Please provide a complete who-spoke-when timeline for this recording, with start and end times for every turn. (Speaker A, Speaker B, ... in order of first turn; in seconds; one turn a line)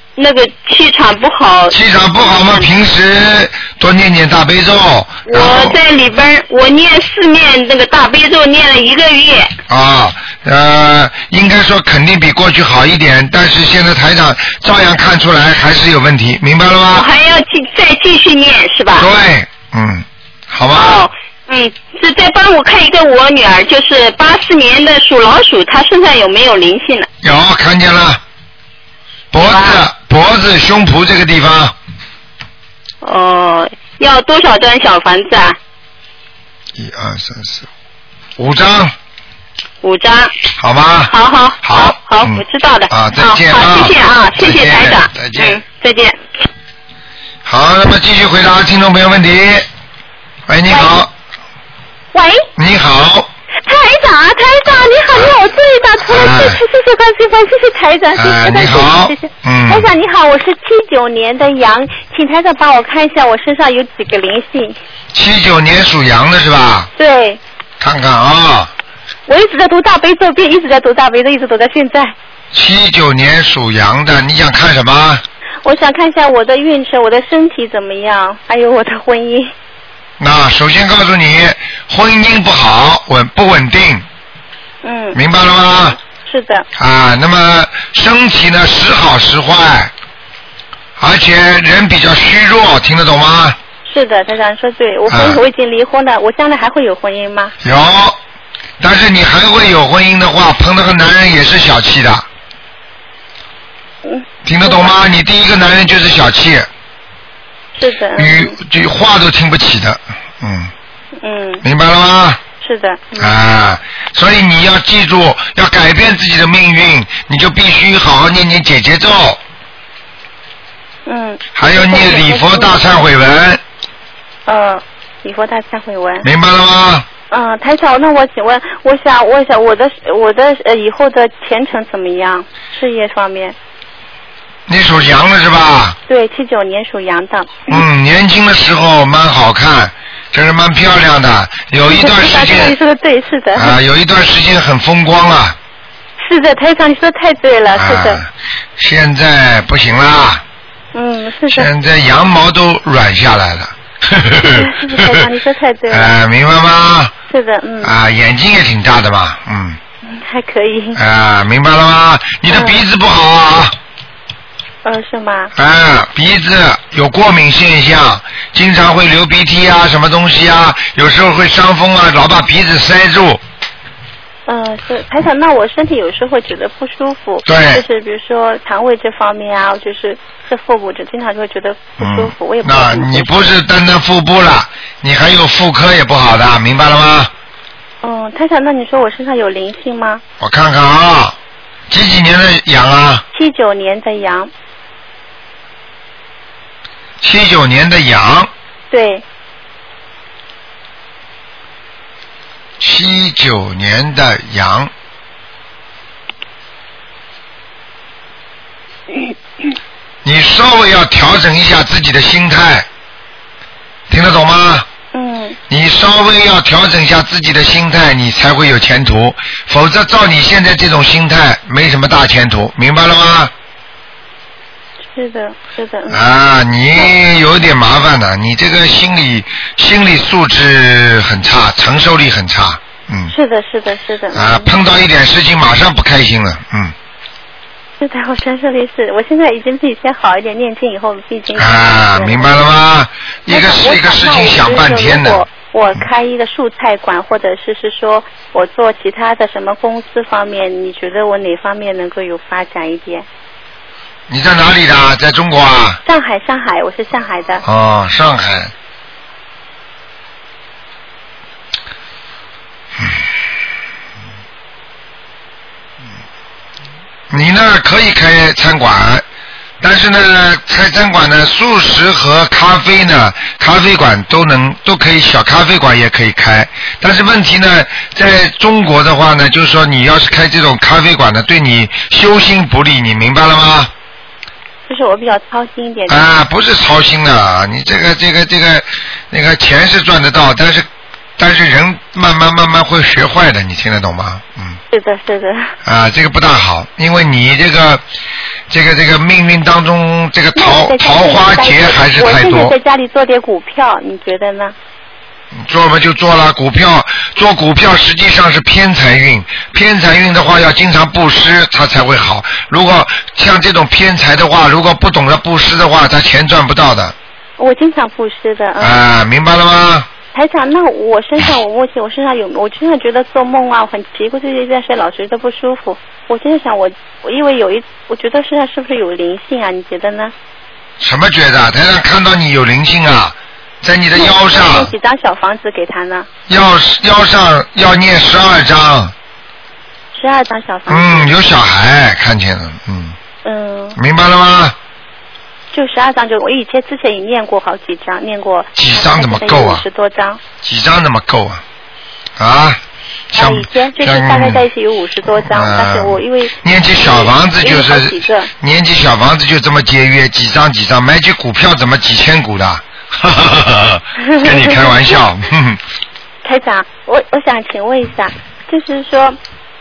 Speaker A: 0.2-2.7
Speaker B: 1.7-5.8
Speaker A: 5.2-9.5
Speaker B: 9.7-17.1
Speaker A: 16.9-19.1
Speaker B: 18.9-21.1
Speaker A: 20.7-27.1
Speaker B: 27.2-28.2
Speaker B: 29.3-31.7
Speaker A: 29.4-29.8
Speaker A: 33.0-35.6
Speaker B: 36.8-37.7
Speaker B: 38.4-38.9
Speaker A: 39.8-40.3
Speaker B: 40.6-45.6
Speaker A: 41.1-46.2
Speaker B: 47.4-49.6
Speaker B: 50.5-51.1
Speaker C: 50.7-51.0
Speaker C: 52.1-52.5
Speaker B: 52.5-53.3
Speaker C: 53.6-64.8
Speaker B: 56.1-56.6
Speaker B: 58.1-59.9
Speaker B: 65.1-66.9
Speaker C: 67.0-67.4
Speaker B: 67.8-68.7
Speaker C: 69.3-72.1
Speaker B: 72.5-75.2
Speaker C: 75.6-79.5
Speaker B: 80.2-84.0
Speaker C: 84.8-85.2
Speaker B: 85.1-86.0
Speaker C: 86.0-86.7
Speaker B: 86.8-89.9
Speaker B: 91.0-93.6
Speaker C: 93.8-97.5
Speaker B: 95.1-95.4
Speaker B: 97.6-98.2
Speaker B: 98.8-102.2
Speaker C: 104.0-105.0
Speaker B: 104.4-106.7
Speaker C: 107.8-108.5
Speaker B: 108.2-110.7
Speaker C: 111.2-111.6
Speaker B: 111.6-112.4
Speaker C: 112.6-113.3
Speaker B: 113.2-119.4
Speaker C: 121.0-122.9
Speaker B: 121.5-123.6
Speaker C: 124.5-126.2
Speaker B: 126.2-127.0
Speaker C: 127.3-133.6
Speaker B: 134.7-136.0
Speaker C: 136.1-137.8
Speaker B: 137.7-142.8
Speaker C: 141.9-143.8
Speaker B: 143.5-145.6
Speaker C: 146.2-148.2
Speaker B: 147.7-150.4
Speaker C: 150.9-151.7
Speaker B: 151.5-155.2
Speaker C: 154.4-156.1
Speaker B: 155.9-157.1
Speaker C: 157.3-157.9
Speaker B: 157.8-159.8
Speaker C: 160.1-161.0
Speaker B: 160.9-163.7
Speaker C: 162.5-162.8
Speaker C: 164.8-165.5
Speaker B: 165.6-173.4
Speaker C: 174.5-183.5
Speaker B: 177.4-177.8
Speaker B: 182.0-187.3
Speaker C: 188.0-190.2
Speaker B: 190.4-191.3
Speaker B: 191.9-193.2
Speaker C: 193.3-194.5
Speaker B: 197.2-198.5
Speaker C: 198.9-199.2
Speaker B: 202.8-204.9
Speaker B: 210.2-212.8
Speaker B: 214.1-214.9
Speaker C: 215.1-215.6
Speaker B: 215.7-223.5
Speaker C: 225.1-226.2
Speaker B: 226.1-233.3
Speaker C: 233.3-234.7
Speaker B: 234.3-236.9
Speaker C: 238.0-242.7
Speaker B: 241.6-245.5
Speaker C: 243.5-253.2
Speaker B: 254.3-256.0
Speaker C: 256.0-257.6
Speaker B: 257.6-258.7
Speaker B: 267.3-269.2
Speaker B: 269.8-283.9
Speaker C: 284.9-286.3
Speaker B: 286.1-290.9
Speaker B: 291.4-294.8
Speaker C: 294.9-295.7
Speaker B: 295.8-298.0
Speaker B: 298.7-302.7
Speaker C: 300.5-304.7
Speaker B: 305.6-317.1
Speaker C: 317.6-319.0
Speaker B: 318.8-320.1
Speaker C: 320.3-330.3
Speaker B: 331.0-334.9
Speaker C: 334.1-336.3
Speaker B: 336.5-339.1
Speaker C: 340.1-341.3
Speaker B: 340.9-343.2
Speaker C: 343.4-344.0
Speaker B: 343.9-344.8
Speaker C: 345.7-350.4
Speaker B: 348.8-349.8
Speaker B: 350.6-351.6
Speaker B: 352.4-352.8
Speaker B: 353.3-354.6
Speaker C: 353.3-358.5
Speaker B: 355.4-365.8
Speaker C: 364.2-365.2
Speaker C: 366.4-369.4